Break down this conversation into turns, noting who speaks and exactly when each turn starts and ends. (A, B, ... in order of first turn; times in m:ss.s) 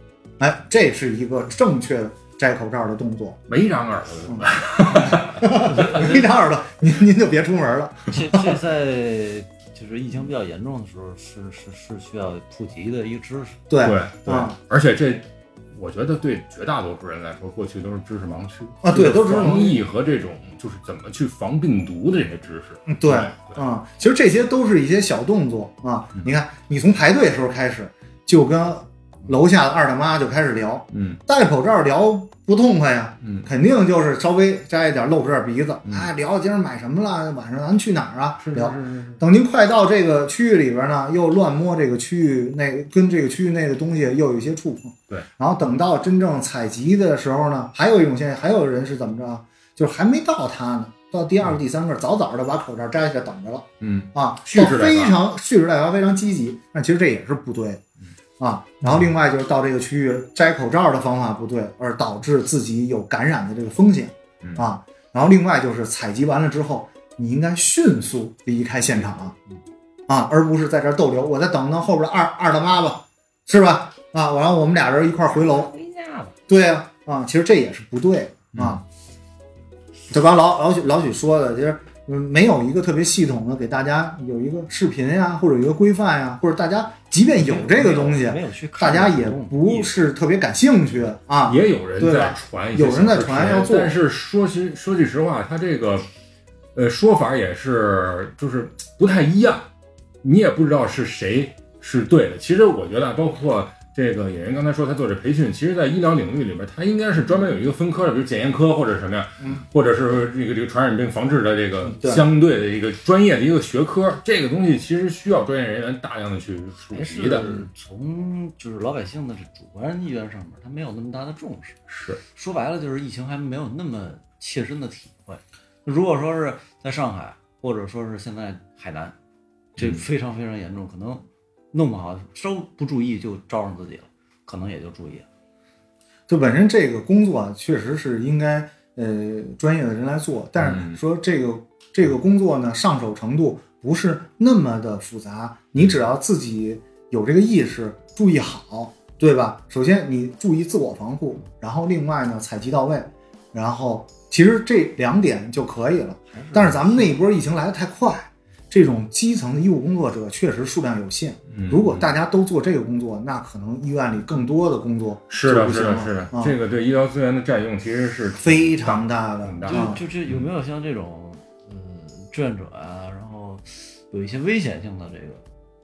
0:00.4-0:03.4 A
0:03.5-0:06.1 B
0:04.3-0:08.6 A
0:05.8-0:06.1 C
0:08.1-0:13.6 C
0:13.7-0:14.6 A
0:13.8-0:23.6 B
0:18.8-0:19.8 A
0:22.9-0:57.8 A
0:30.9-0:31.2 B
0:33.2-0:33.5 B
0:38.4-0:39.2 B
0:53.8-0:55.2 B
0:58.4-1:09.4 A
1:10.1-1:15.8 A
1:15.6-1:16.3 C
1:16.5-1:18.8 A
1:18.5-1:18.8 B
1:20.1-1:34.0 A
1:27.4-1:29.9 C
1:31.4-1:36.1 B
1:36.8-1:39.7 B
1:40.2-1:57.6 B
1:51.9-1:52.2 A
1:56.9-2:01.8 C
2:01.9-2:02.2 B
2:02.3-2:09.2 C
2:09.8-2:10.0 B
2:09.8-2:15.3 C
2:16.3-2:46.6 A
2:20.6-2:21.0 B
2:36.3-2:37.2 C
2:41.5-2:42.1 B
2:45.3-2:50.4 B
2:48.4-2:50.0 A
2:49.6-2:55.4 C